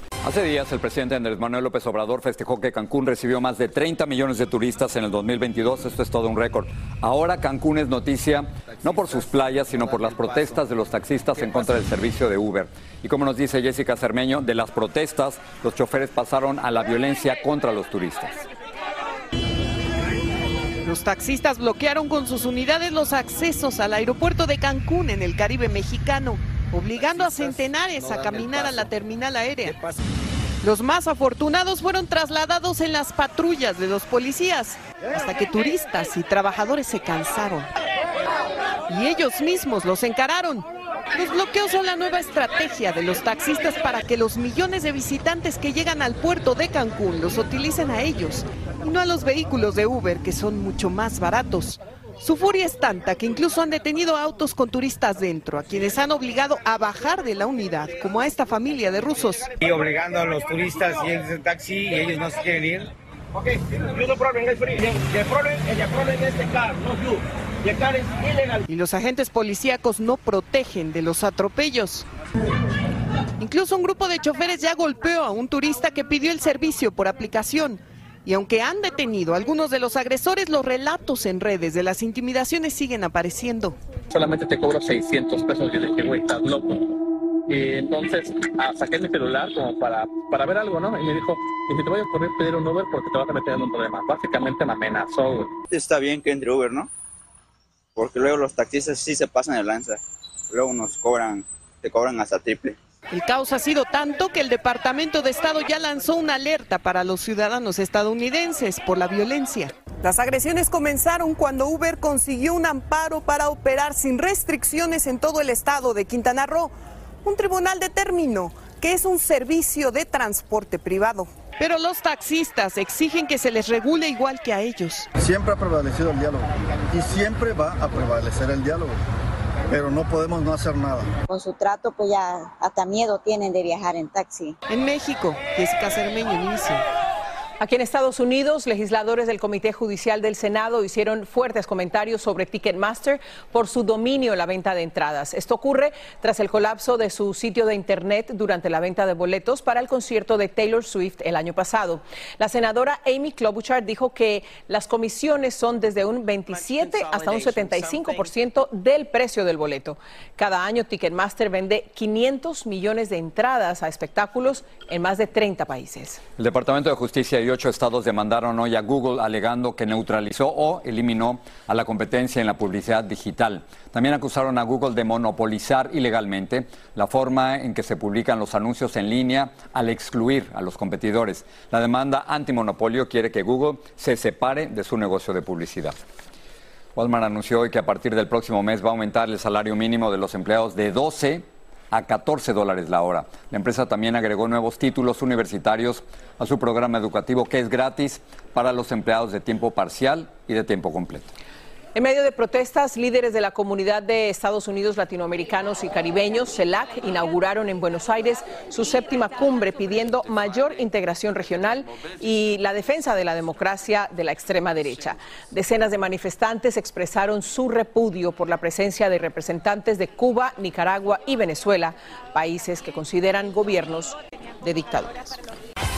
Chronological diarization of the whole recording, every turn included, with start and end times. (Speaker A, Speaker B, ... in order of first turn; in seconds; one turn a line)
Speaker A: 0.2-18.4
Speaker B: 20.8-29.8
Speaker B: 30.6-37.7
Speaker B: 38.9-59.5
Speaker C: 59.7-62.9
Speaker C: 64.2-66.8
Speaker B: 68.7-72.0
Speaker B: 73.4-83.8
Speaker D: 84.1-95.5
Speaker E: 95.7-96.9
Speaker E: 98.0-102.8
Speaker B: 103.1-116.7
Speaker B: 117.2-125.1
Speaker F: 125.2-129.0
Speaker F: 129.7-131.1
Speaker G: 131.3-134.6
Speaker B: 134.7-136.8
Speaker H: 137.6-166.2
Speaker A: 166.4-186.0
Speaker A: 187.0-201.3
Speaker H: 201.9-225.3